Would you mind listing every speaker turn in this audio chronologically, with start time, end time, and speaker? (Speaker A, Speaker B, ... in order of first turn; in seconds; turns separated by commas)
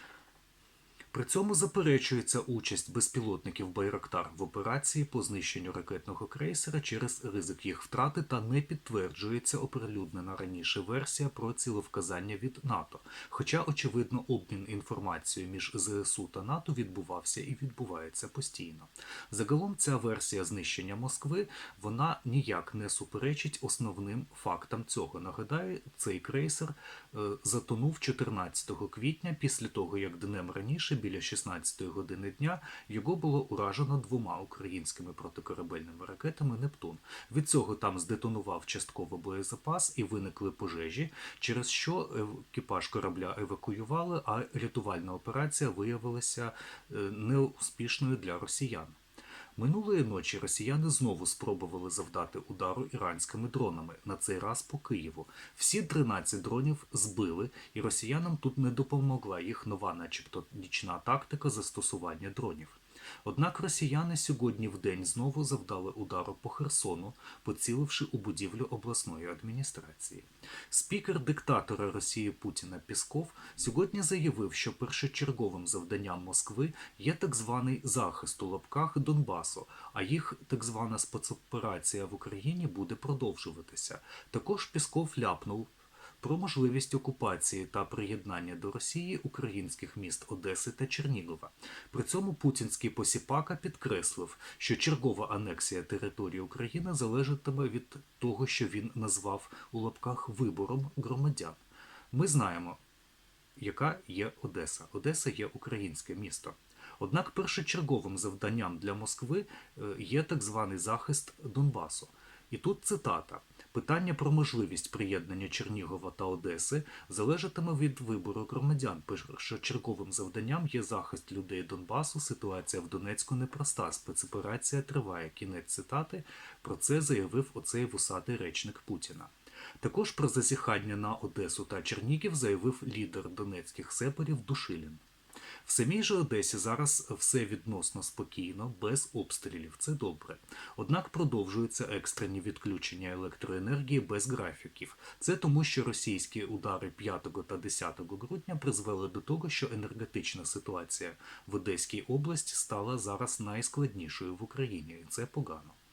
Speaker A: 1.1-49.0, Speaker A: 49.6-101.6, Speaker A: 102.1-102.8, Speaker A: 103.6-135.0, Speaker A: 135.6-155.8